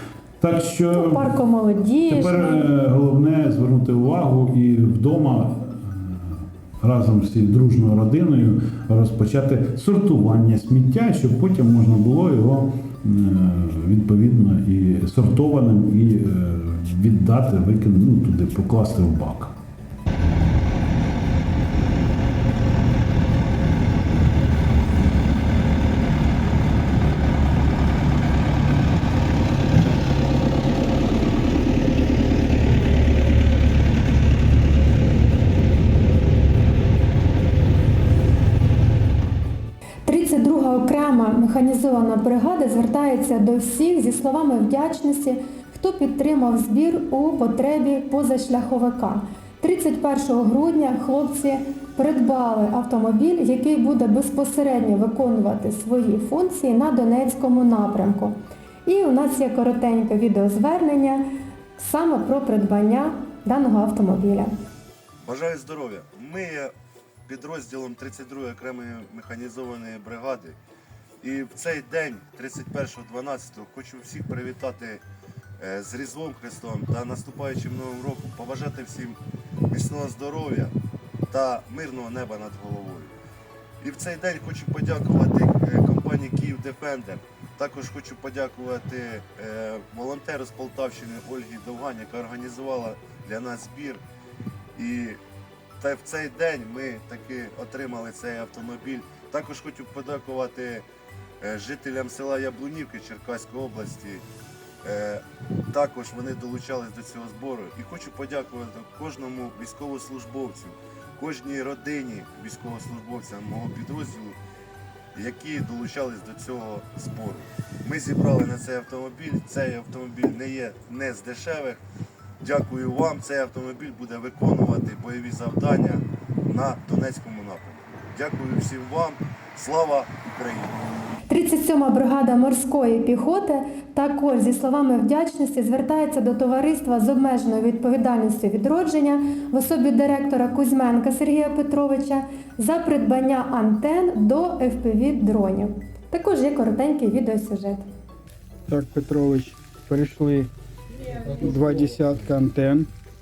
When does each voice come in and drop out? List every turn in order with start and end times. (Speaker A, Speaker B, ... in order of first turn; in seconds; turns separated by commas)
Speaker A: 0.4-1.3, Speaker B: 0.9-2.7, Speaker A: 2.1-19.5, Speaker B: 40.0-61.2, Speaker B: 61.8-64.5, Speaker C: 65.2-66.7, Speaker C: 67.3-70.6, Speaker C: 71.2-75.0, Speaker C: 75.6-79.2, Speaker C: 79.7-80.7, Speaker C: 81.3-83.1, Speaker C: 83.8-94.0, Speaker C: 94.8-95.2, Speaker C: 95.8-100.8, Speaker C: 101.4-104.2, Speaker C: 104.8-114.4, Speaker C: 115.2-121.8, Speaker C: 122.4-130.8, Speaker B: 131.3-147.8, Speaker D: 148.7-150.5, Speaker D: 151.2-152.9